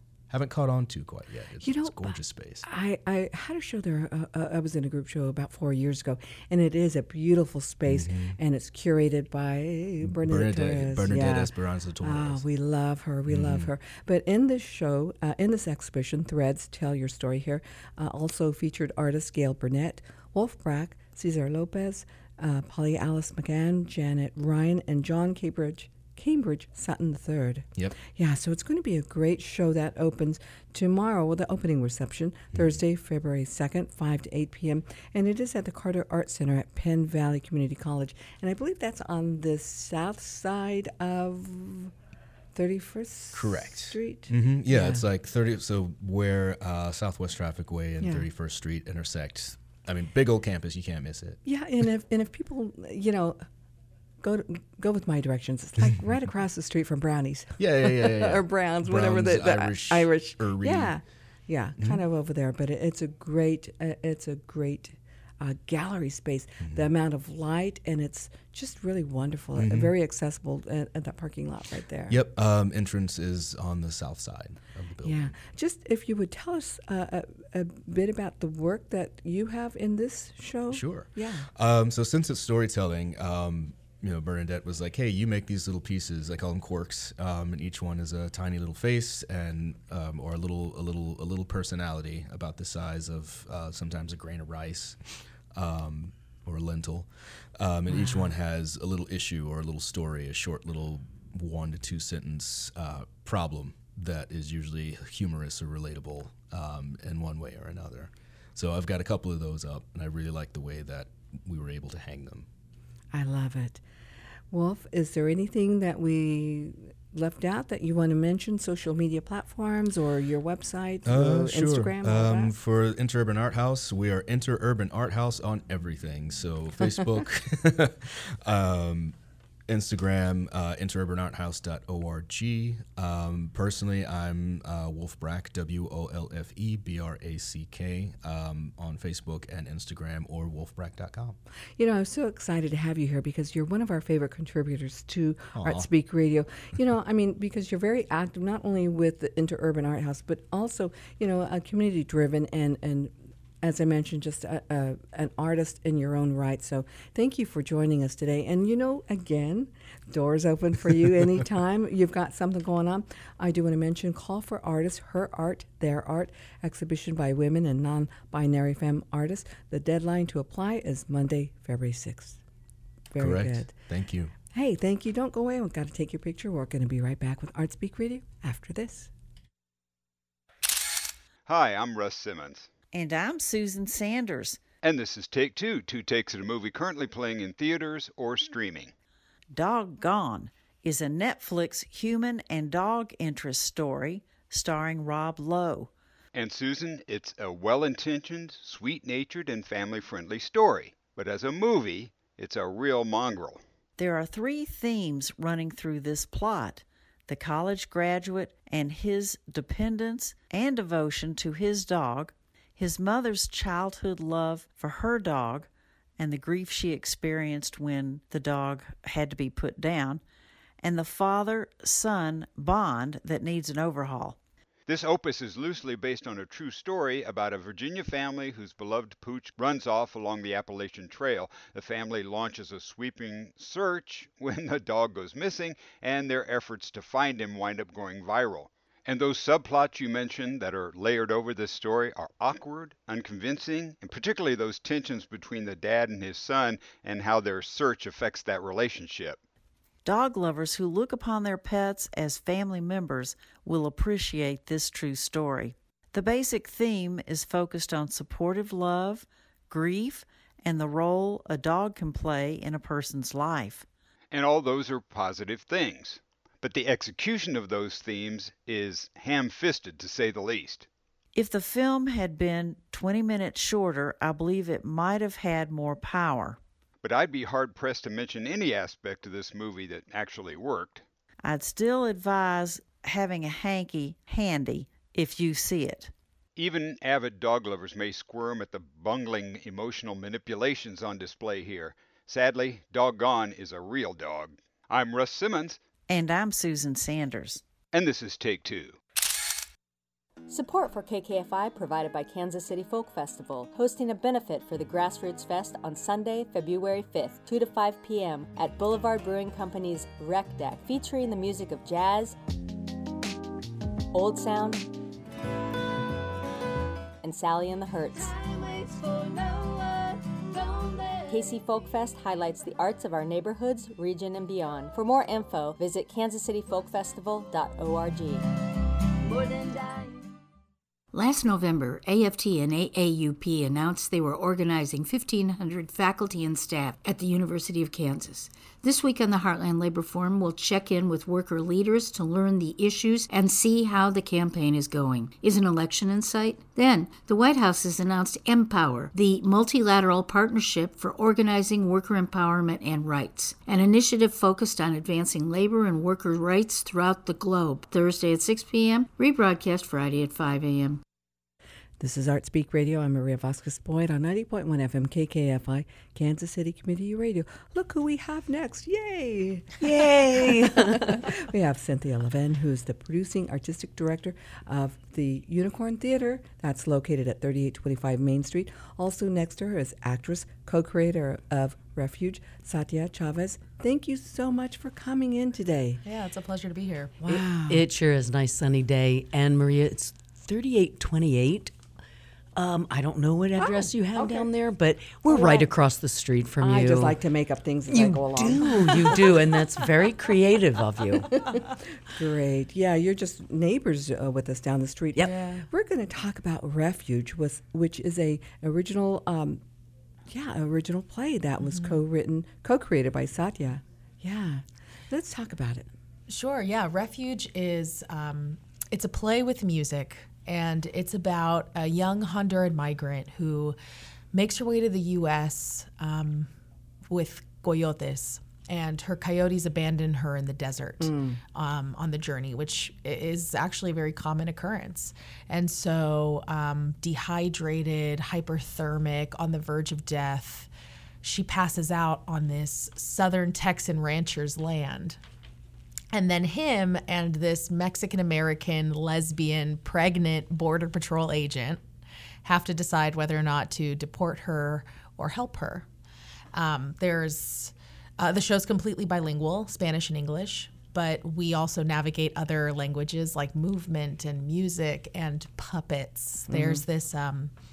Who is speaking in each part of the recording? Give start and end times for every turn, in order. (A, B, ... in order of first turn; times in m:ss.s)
0:00.3-0:02.6 A
0:01.6-0:41.9 B
0:07.9-0:08.4 A
0:10.0-0:12.4 A
0:13.3-0:13.7 A
0:32.5-0:32.8 A
0:42.6-0:45.0 B
0:43.3-0:51.4 A
0:51.4-0:53.4 B
0:54.2-1:12.2 B
0:57.6-1:00.9 A
1:09.6-1:09.9 A
1:12.1-1:15.4 A
1:15.0-1:21.5 B
1:20.7-1:35.0 A
1:35.5-1:52.5 A
1:37.9-1:38.3 B
1:53.1-1:53.8 B
1:54.5-2:02.6 B
2:01.1-2:09.2 A
2:09.7-2:21.4 A
2:21.8-2:52.4 B
2:25.5-2:25.9 A
2:53.1-2:53.7 B
2:53.2-2:54.3 A
2:54.5-2:59.1 B
3:01.4-3:02.7 C
3:02.9-3:04.6 D
3:04.8-3:08.9 C
3:09.5-3:15.9 D
3:16.3-3:23.6 C
3:24.0-3:40.2 D
3:40.8-3:44.4 D
3:44.9-4:09.4 C
4:10.0-4:23.9 D
4:24.3-4:30.9 C
4:31.3-4:36.6 D
4:37.0-4:41.0 C
4:41.4-4:46.1 D
4:46.6-4:55.8 C
4:56.1-4:57.6 D
4:57.9-4:59.0 C
5:00.5-5:12.4 E
5:14.1-5:14.8 E
5:17.2-5:18.4 E
5:21.3-5:28.4 E
5:31.1-6:01.0 F
6:02.0-6:26.0 B
6:09.8-6:11.2 G
6:26.0-6:27.2 H
6:27.2-6:27.8 B
6:27.6-6:31.7 G
6:32.6-6:37.2 G
6:33.6-6:34.5 B
6:35.3-6:35.7 B
6:36.6-6:39.2 B
6:37.9-6:41.3 G
6:42.1-6:49.6 B
6:45.2-6:45.6 H
6:50.3-6:55.9 B
6:51.6-6:52.0 H
6:56.3-7:03.8 H
7:04.3-7:06.5 H
7:07.1-7:20.7 H
7:11.0-7:11.4 B
7:21.2-7:25.2 H
7:26.1-7:31.8 H
7:32.4-7:35.9 H
7:36.5-7:47.5 H
7:46.5-7:46.8 B